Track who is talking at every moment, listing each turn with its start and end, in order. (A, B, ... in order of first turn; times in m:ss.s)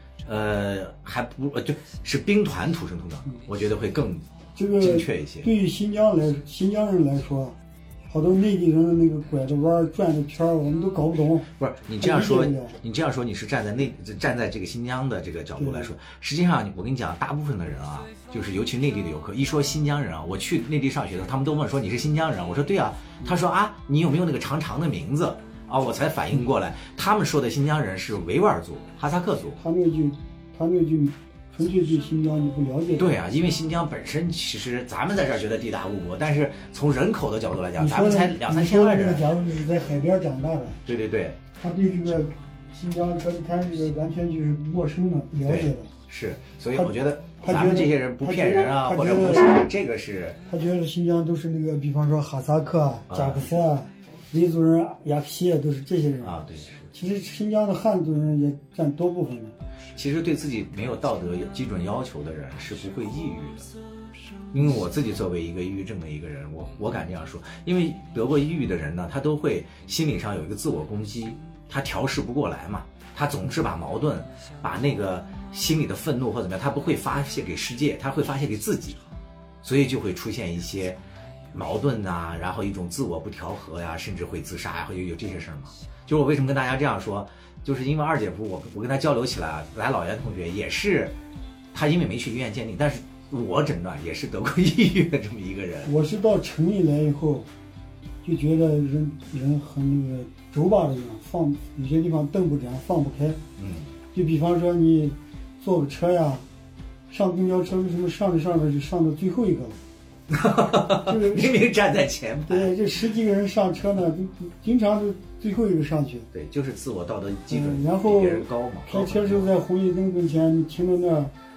0:00.2-0:04.3 A
0:04.6-0:07.6 B
0:04.8-0:05.5 A
0:08.1-0:12.8 B
0:11.6-0:29.6 A
0:15.6-0:15.9 B
0:29.6-0:33.2 B
0:33.0-0:39.3 A
0:37.8-0:40.8 B
0:40.8-0:41.4 A
0:41.6-0:45.9 B
0:45.4-0:50.4 A
0:46.8-0:49.6 B
0:50.5-0:56.4 B
0:53.1-0:53.5 A
0:56.2-0:56.9 A
0:56.9-0:59.6 B
0:59.9-1:03.7 A
1:04.5-1:19.0 A
1:19.6-1:31.2 A
1:31.7-1:35.9 A
1:35.8-1:37.5 B
1:38.2-1:43.4 B
1:43.6-1:43.9 A
1:44.1-1:46.5 B
1:47.1-1:49.8 B
1:50.3-1:52.8 A
1:50.9-1:51.6 B
1:52.5-1:56.3 B
1:56.3-1:59.5 A
1:57.5-2:01.3 B